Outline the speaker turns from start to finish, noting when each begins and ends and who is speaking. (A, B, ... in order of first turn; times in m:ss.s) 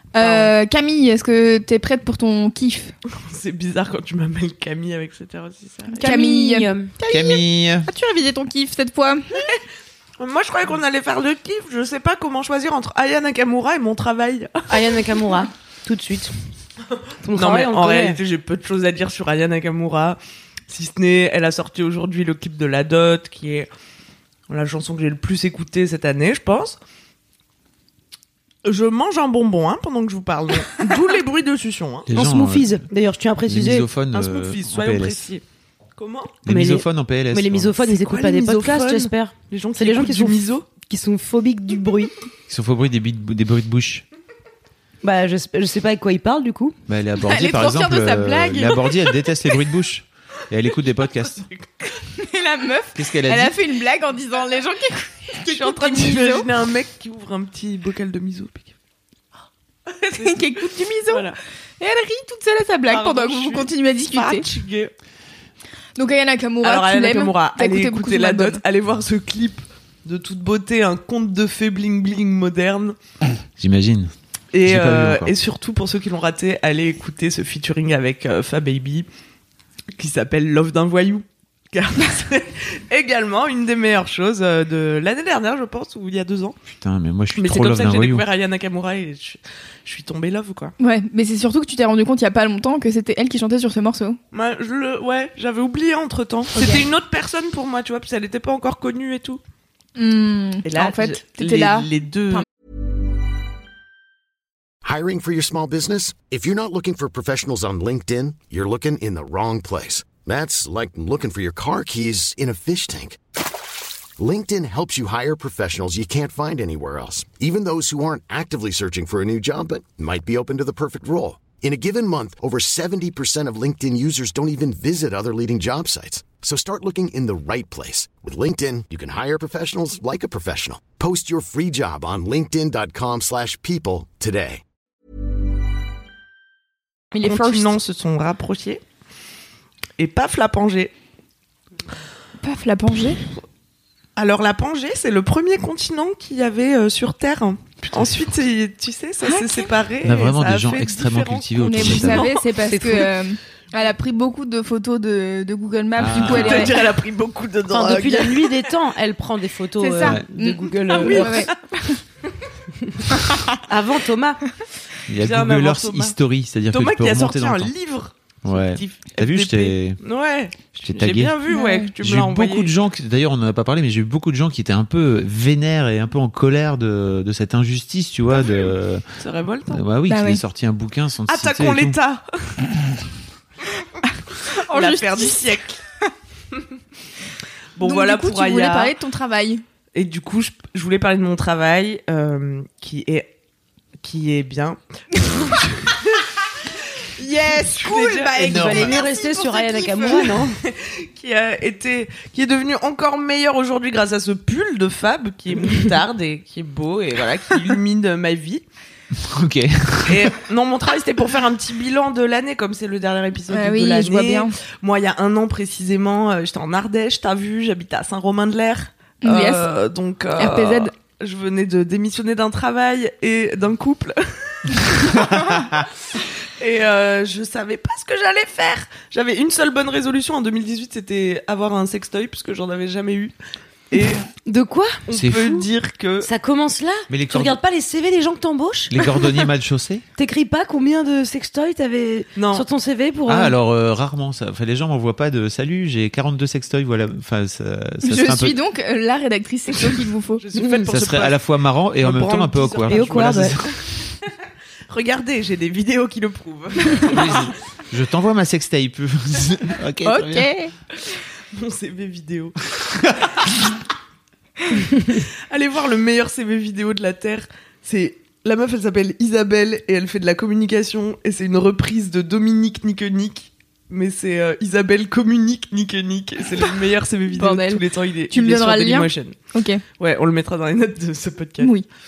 0:00.1-0:02.9 A
0:00.2-0:00.5 B
0:03.1-0:06.1 B
0:06.0-0:06.9 C
0:06.0-0:09.5 A
0:07.1-0:07.9 D
0:10.2-0:15.0 B
0:14.7-0:16.3 C
0:17.2-0:18.2 C
0:17.3-0:23.7 B
0:24.5-0:26.8 B
0:28.6-0:32.1 B
0:32.1-0:32.8 D
0:32.1-0:33.9 C
0:33.4-0:35.3 D
0:34.1-0:35.4 B
0:36.0-0:36.4 B
0:36.4-0:37.7 D
0:36.5-0:42.1 C
0:38.0-0:40.6 B
0:42.5-0:44.0 D
0:45.0-0:46.8 C
0:46.9-0:51.4 D
0:47.2-0:49.3 A
0:51.5-0:51.8 B
0:52.0-0:56.5 A
0:52.9-0:53.6 D
0:55.4-0:58.7 B
0:59.9-1:01.4 B
1:00.1-1:04.5 A
1:02.9-1:04.9 B
1:06.0-1:08.6 A
1:06.6-1:13.0 B
1:13.6-1:14.1 D
1:14.5-1:19.0 B
1:14.6-1:15.3 D
1:20.0-1:26.6 B
1:26.7-1:28.2 D
1:27.3-1:30.7 B
1:30.8-1:34.2 A
1:34.3-1:39.4 B
1:36.5-1:36.8 A
1:40.0-1:42.4 A
1:40.6-1:42.4 B
1:44.8-1:53.2 E
1:54.2-2:14.6 E
2:17.1-2:17.8 A
2:17.2-2:18.8 B
2:20.0-2:20.9 B
2:22.4-2:23.2 A
2:24.2-2:32.5 B
2:27.9-2:28.2 D
2:29.3-2:29.6 A
2:30.0-2:32.3 D
2:31.6-2:36.9 A
2:32.7-2:33.1 C
2:36.0-2:36.7 D
2:36.1-2:38.7 B
2:37.7-2:41.5 C
2:39.8-2:42.0 A
2:40.9-2:41.5 B
2:42.8-2:44.4 C
2:45.1-2:47.7 D
2:45.2-2:46.2 B
2:46.7-2:52.7 B
2:48.4-2:50.0 D
2:50.8-2:51.3 D
2:51.5-2:51.9 A
2:52.0-2:59.0 D
2:58.3-2:59.8 B
2:59.7-3:02.0 D
3:00.1-3:00.4 A
3:01.3-3:02.6 B
3:04.5-3:05.5 A
3:04.5-3:05.8 B
3:07.8-3:08.9 B
3:07.8-3:09.6 A
3:09.9-3:13.3 B
3:14.0-3:28.6 B
3:17.3-3:18.6 A
3:18.4-3:18.9 D
3:18.4-3:20.5 C
3:29.1-3:30.3 D
3:30.1-3:53.3 B
3:33.5-3:34.6 A
3:39.2-3:39.7 A
3:40.4-3:40.9 A
3:45.4-3:45.8 D
3:53.9-3:54.2 B
3:54.4-3:55.0 C
3:55.1-3:56.3 B
3:55.1-3:55.6 D
3:56.2-3:58.9 C
3:57.1-3:57.6 D
3:58.9-4:00.0 D
4:00.2-4:03.5 C
4:02.4-4:02.6 B
4:03.3-4:08.6 D
4:08.0-4:10.4 A
4:10.4-4:11.4 B
4:10.5-4:10.9 C
4:10.9-4:13.8 D
4:12.0-4:14.1 B
4:12.9-4:13.6 C
4:14.9-4:17.5 B
4:17.1-4:20.5 D
4:20.0-4:20.7 A
4:21.0-4:23.5 B
4:24.7-4:39.4 B
4:37.3-4:39.8 A
4:40.0-4:41.7 B
4:41.6-4:41.8 A